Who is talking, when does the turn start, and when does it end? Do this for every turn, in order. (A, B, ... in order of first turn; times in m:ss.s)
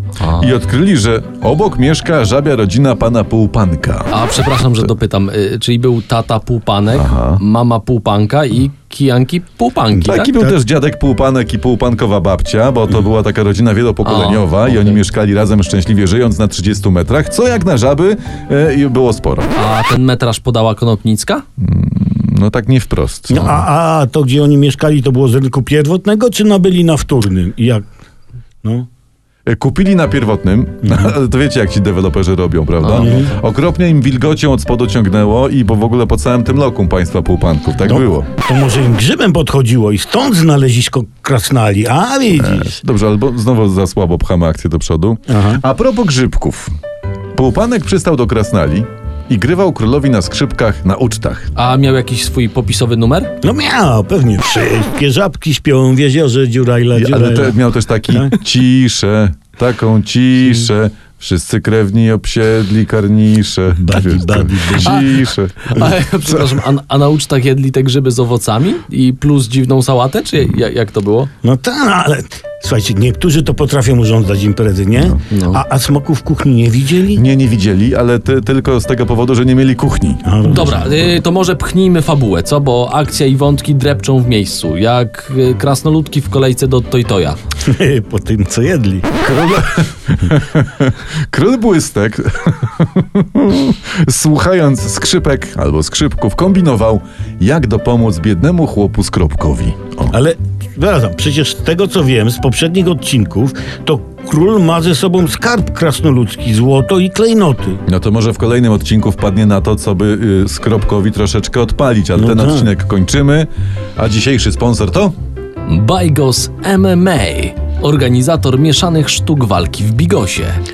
0:00.2-0:00.5 A
0:00.4-0:04.2 B
0:04.1-0:10.3 A
0:06.9-0:07.4 B
0:10.0-0:10.6 C
0:10.0-0:19.5 B
0:14.0-0:15.0 A
0:19.6-0:21.4 A
0:21.6-0:23.5 B
0:23.3-0:27.8 C
0:29.4-0:38.3 B
0:30.8-0:31.1 C
0:32.8-0:33.1 A
0:32.9-0:33.3 C
0:37.9-0:42.8 C
0:42.3-0:46.7 B
0:45.3-0:45.6 C
0:47.3-0:51.5 B
0:51.6-0:53.3 A
0:53.4-0:58.3 C
0:57.0-1:05.9 B
1:03.8-1:05.0 C
1:04.8-1:11.3 A
1:11.4-1:17.2 C
1:15.3-1:15.6 A
1:17.1-1:20.7 B
1:20.2-1:21.0 C
1:20.4-1:27.4 A
1:27.6-1:29.2 C
1:29.2-1:40.1 B
1:40.1-1:47.8 C
1:47.8-1:55.1 B
1:52.2-1:52.7 C
1:55.6-2:00.6 A